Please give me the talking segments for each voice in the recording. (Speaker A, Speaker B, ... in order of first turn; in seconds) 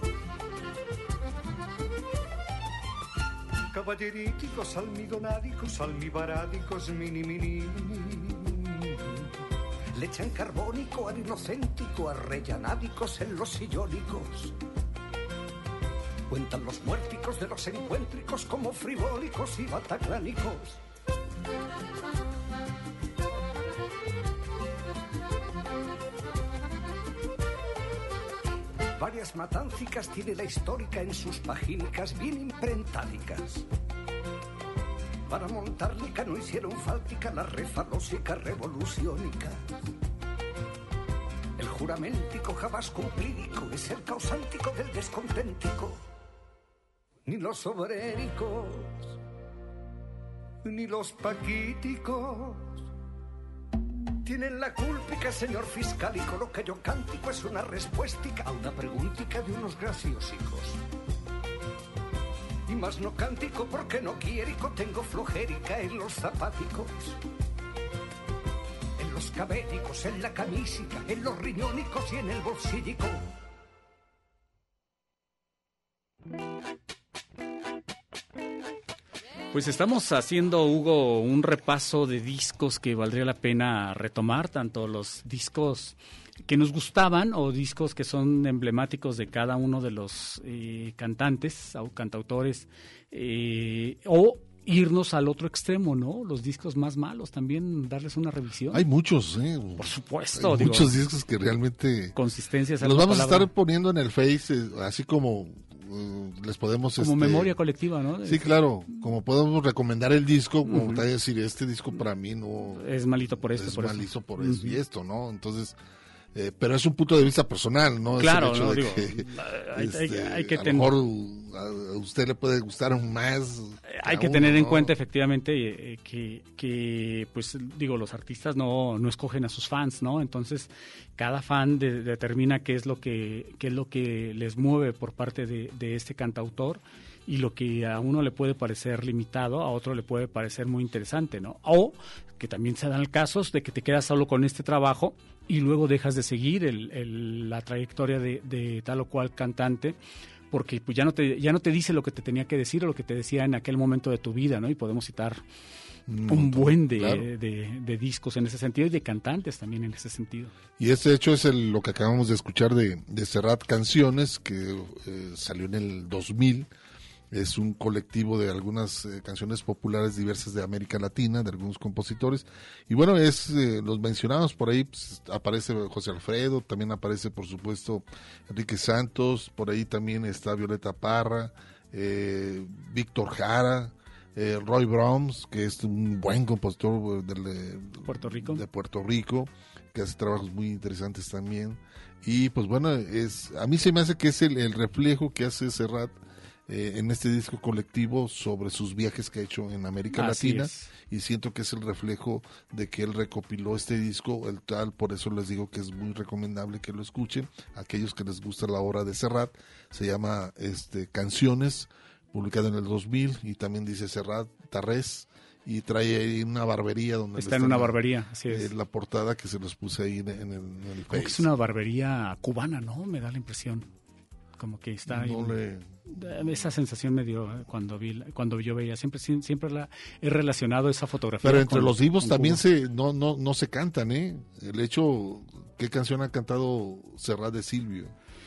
Speaker A: 3.7-9.3, 9.9-14.6, 16.3-20.8, 29.0-33.6, 35.3-39.6, 41.6-46.0, 47.3-49.1, 50.6-52.8, 54.2-60.8, 62.7-67.2, 69.0-73.3
Speaker B: 79.5-98.8, 99.8-100.9, 102.2-103.5, 107.0-108.5, 110.7-111.0, 112.8-114.8, 118.2-120.9, 123.9-150.0, 150.5-155.4, 156.3-160.5, 188.1-188.6, 200.1-200.9, 217.4-218.7, 221.1-223.9, 224.6-225.6, 226.1-232.6
Speaker C: 98.7-102.2, 102.8-107.5, 108.2-112.9, 113.4-115.8, 116.3-125.0, 156.1-157.3, 160.8-166.7, 167.3-221.5, 225.1-225.9, 231.4-238.1